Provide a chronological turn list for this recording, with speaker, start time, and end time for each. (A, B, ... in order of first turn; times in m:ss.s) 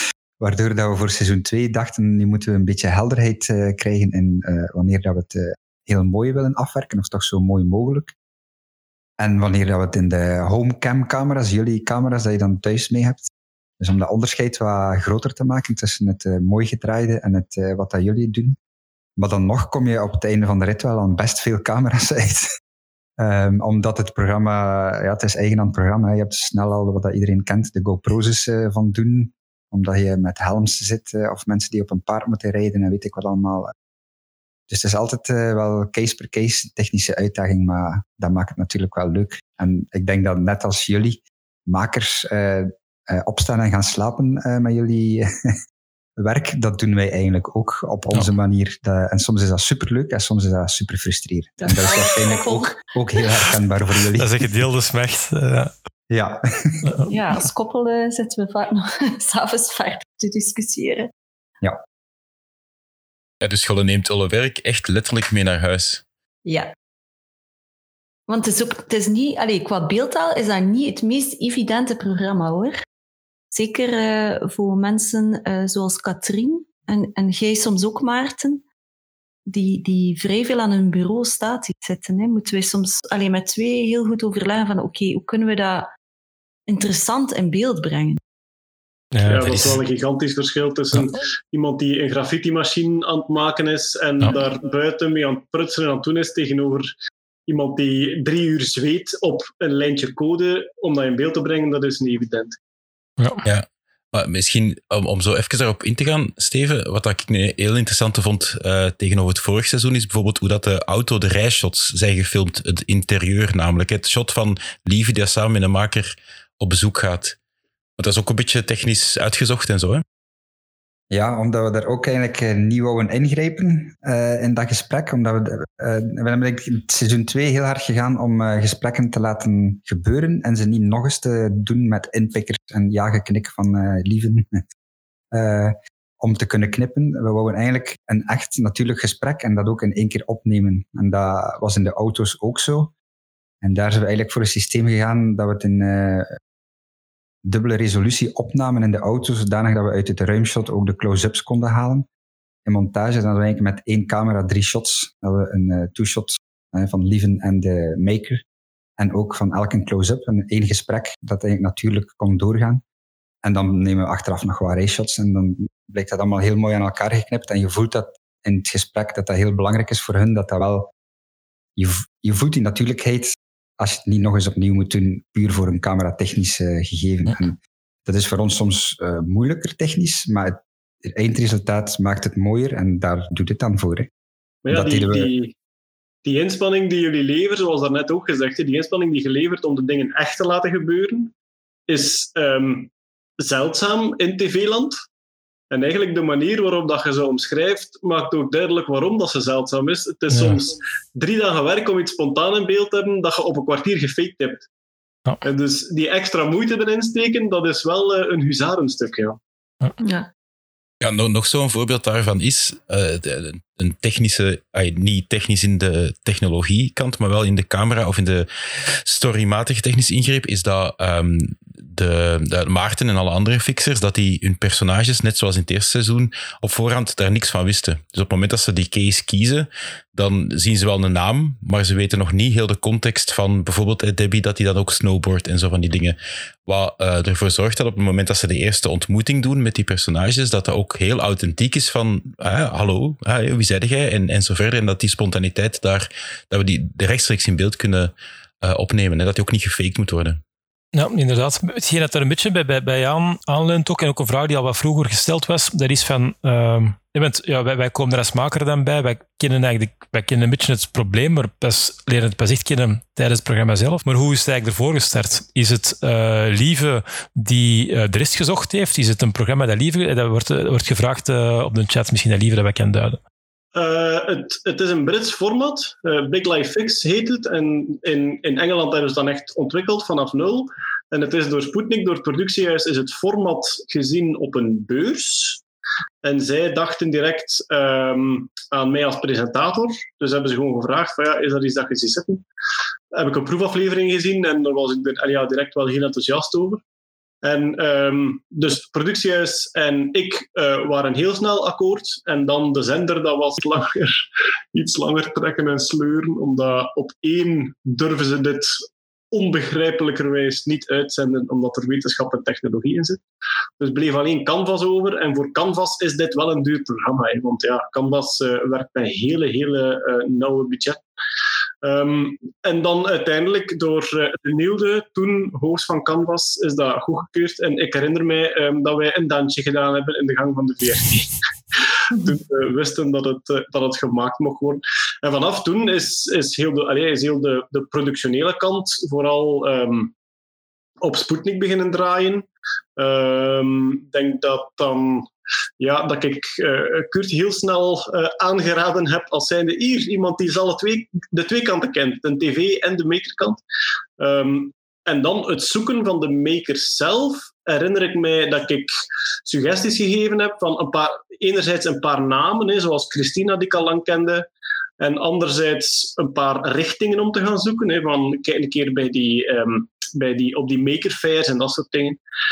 0:00.4-0:08.1 A
0:09.2-0:18.6 A
0:19.2-0:22.5 A
0:23.2-0:33.7 A
0:34.7-0:45.3 A
0:46.2-0:54.3 A
0:51.6-0:52.7 B
0:54.2-0:55.7 C
0:56.1-0:57.0 A
0:56.8-0:57.1 C
0:57.1-1:01.1 B
1:03.4-1:06.0 D
1:06.4-1:06.7 B
1:08.3-1:12.8 B
1:13.5-1:18.6 B
1:19.5-1:25.9 B
1:26.7-1:28.2 B
1:29.1-1:29.8 C
1:29.2-1:36.9 E
1:37.5-1:42.6 E
1:43.2-1:43.4 C
1:43.4-1:57.4 D
1:58.0-2:00.0 D
2:01.1-2:14.6 A
2:15.3-2:22.9 A
2:23.6-2:26.3 A
2:27.4-2:32.1 A
2:32.6-2:38.4 A
2:39.0-2:42.8 A
2:43.4-2:50.9 A
2:51.8-3:04.1 A
3:04.6-3:05.5 E
3:04.7-3:05.3 A
3:06.2-3:11.3 E
3:11.9-3:15.0 E
3:15.7-3:24.7 E
3:20.3-3:20.6 C
3:25.4-3:29.4 E
3:30.0-3:30.3 B
3:31.0-4:10.4 D
4:10.9-4:33.2 C
4:33.7-4:45.6 E
4:46.2-4:52.4 E
4:53.1-4:56.8 E
4:57.4-5:13.2 E
5:13.8-5:21.0 E
5:21.8-5:40.1 E
5:41.0-5:42.4 E
5:43.0-5:53.6 E
5:54.2-5:58.9 E
5:59.4-6:04.4 E
6:05.0-6:12.2 E